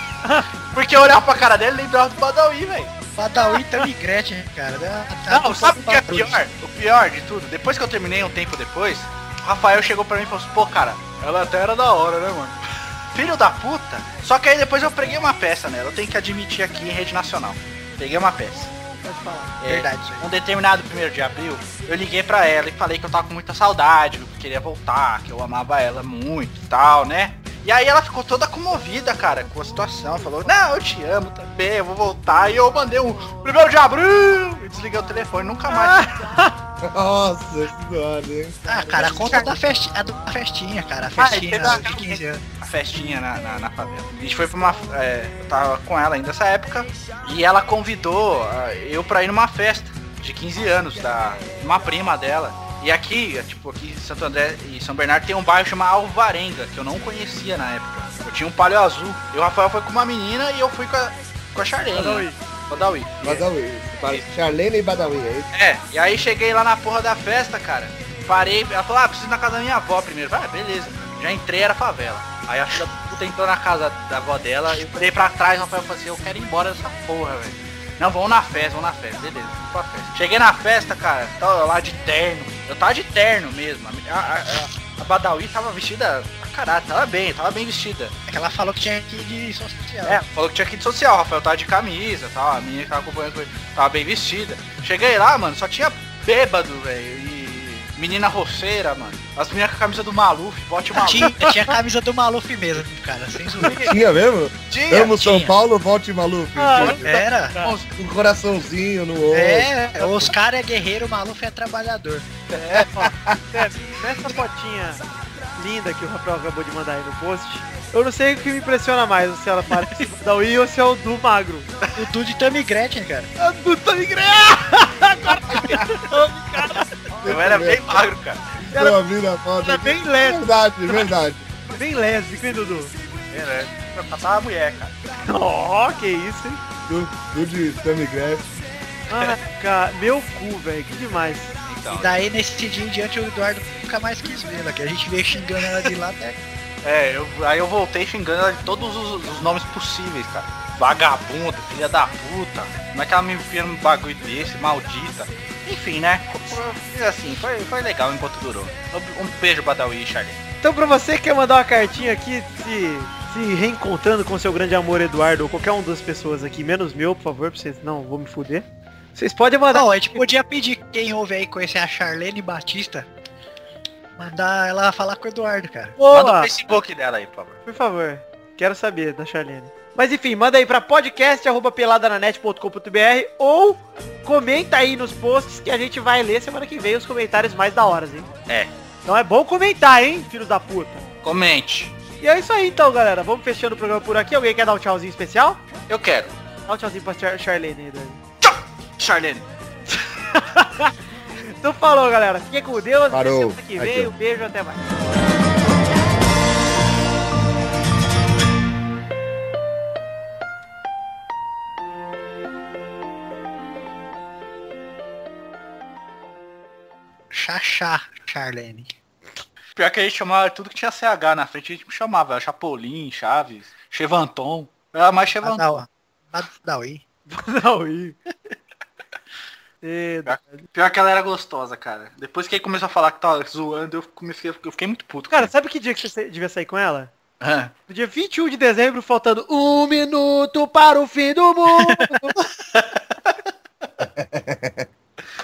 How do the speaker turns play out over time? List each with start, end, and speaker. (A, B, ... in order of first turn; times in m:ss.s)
0:00.7-0:02.9 A
0:03.2-0:06.3 B
0:05.3-0:12.6 A
0:13.1-0:18.7 A
0:19.0-0:20.3 B
0:19.6-0:36.4 A
0:35.7-0:36.5 C
0:36.9-0:38.6 D
0:38.7-0:42.4 B
0:38.9-0:39.6 A
0:41.2-1:03.5 A
1:01.9-1:02.4 C
1:03.2-1:05.5 D
1:05.5-1:28.1 A
1:28.3-1:30.2 B
1:30.0-1:41.5 A
1:41.0-1:43.9 B
1:43.8-1:47.1 D
1:44.7-1:45.5 A
1:46.6-1:47.8 C
1:47.0-1:47.6 B
1:47.6-1:47.9 A
1:48.0-1:50.3 D
1:49.3-1:52.3 B
1:52.5-1:52.9 A
1:53.0-1:55.0 C
1:55.6-2:01.7 C
2:01.9-2:03.3 B
2:03.4-2:06.9 C
2:07.2-2:08.1 D
2:07.3-2:08.4 A
2:08.6-2:11.5 D
2:08.7-2:09.0 C
2:09.6-2:11.1 C
2:11.8-2:12.9 C
2:13.3-2:15.0 A
2:15.2-2:16.6 C
2:16.9-2:18.5 D
2:19.1-2:21.5 C
2:21.6-2:22.2 A
2:21.9-2:26.4 B
2:26.8-2:40.4 A
2:40.6-2:50.2 C
2:49.7-2:53.1 B
2:54.2-2:56.0 B
2:56.0-2:56.5 C
2:56.1-2:57.6 A
2:57.7-3:08.3 C
3:09.1-3:11.0 C
3:11.2-3:11.9 A
3:12.2-3:15.6 C
3:15.9-3:16.4 A
3:16.7-3:18.2 C
3:18.4-3:19.5 A
3:20.3-3:20.9 C
3:21.5-3:25.0 C
3:23.1-3:24.1 D
3:37.3-3:38.9 B
3:39.8-3:45.6 A
3:45.4-3:47.0 B
3:47.3-3:48.2 C
3:49.8-3:50.7 C
3:50.3-3:55.5 A
3:55.3-3:57.1 C
3:57.4-3:57.7 A
3:57.9-4:02.4 C
4:02.0-4:03.4 A
4:04.0-4:04.9 D